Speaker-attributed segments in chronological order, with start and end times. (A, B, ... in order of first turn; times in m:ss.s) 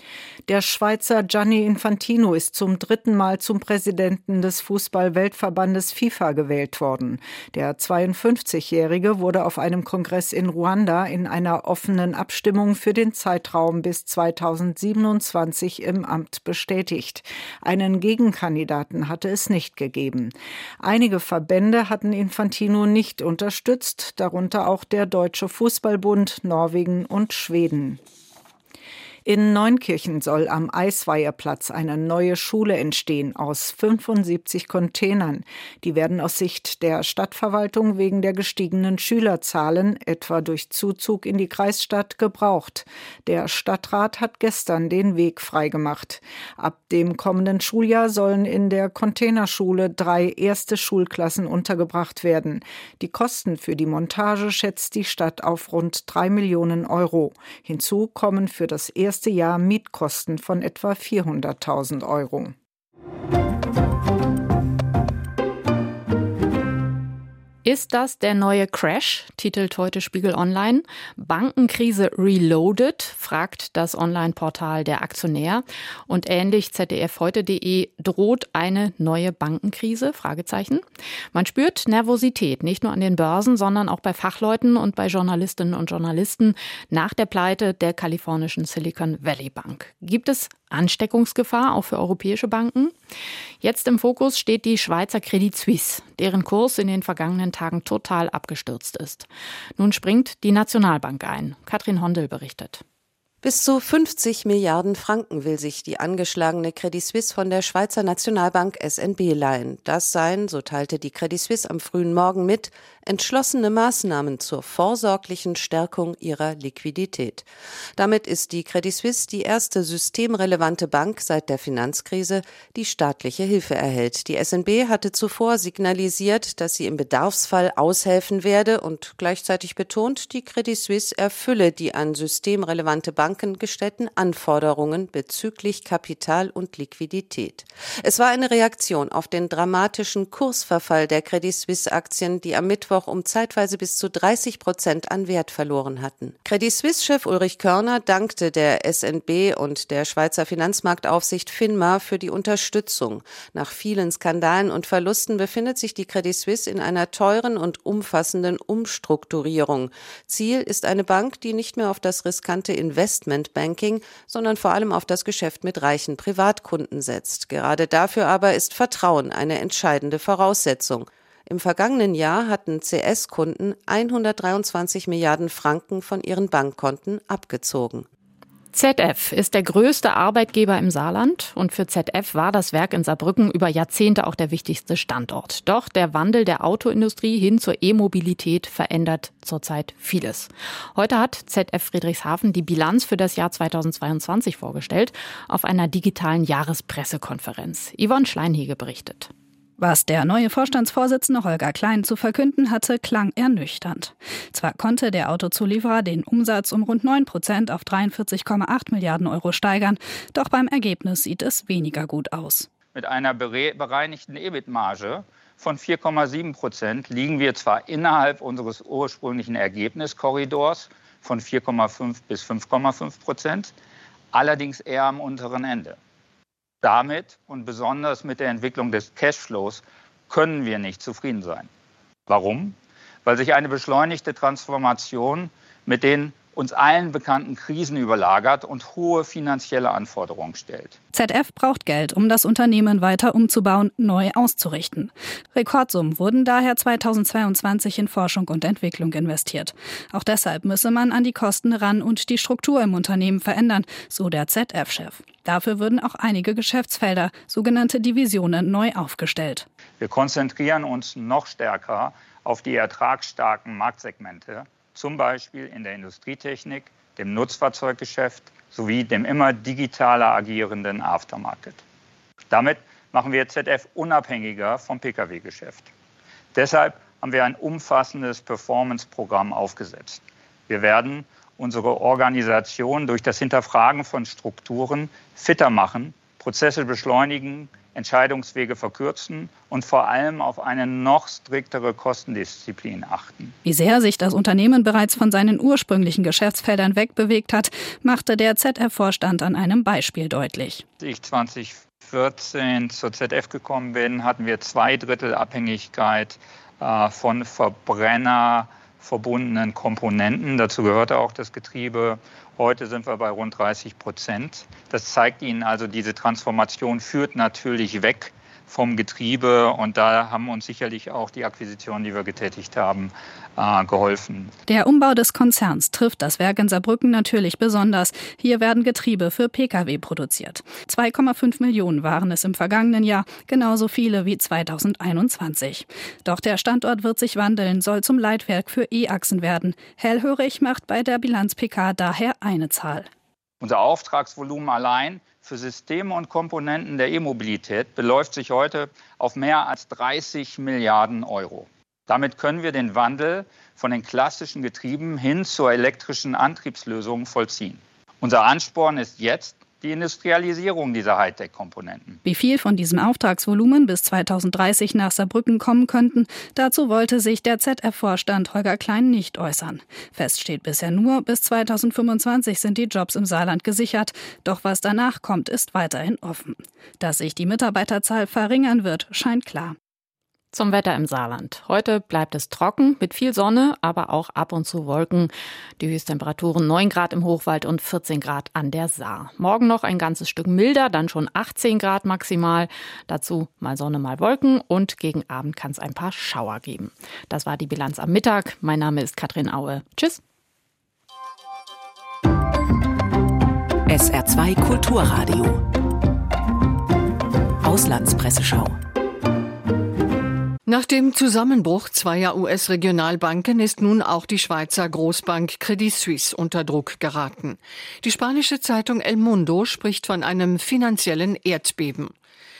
0:00.5-0:28.0 A
0:29.2-1:02.5 A
1:07.6-1:32.9 B
1:33.6-1:42.8 B
1:43.4-2:58.1 C
2:58.7-3:19.3 B
3:19.8-3:32.7 D
3:32.9-3:43.7 E
3:44.3-3:46.0 E
3:46.8-3:51.7 E
3:52.3-4:01.0 E
4:01.1-4:19.6 D
4:20.0-4:31.8 E
4:32.5-4:35.9 E
4:36.5-4:53.5 E
4:53.6-5:00.8 D
5:01.0-5:24.5 E
5:24.7-5:43.1 D
5:43.6-6:02.2 E
6:02.2-6:19.8 D
6:20.5-6:40.2 B
6:43.9-6:45.6 F
6:47.6-6:48.8 F
6:50.7-7:02.1 G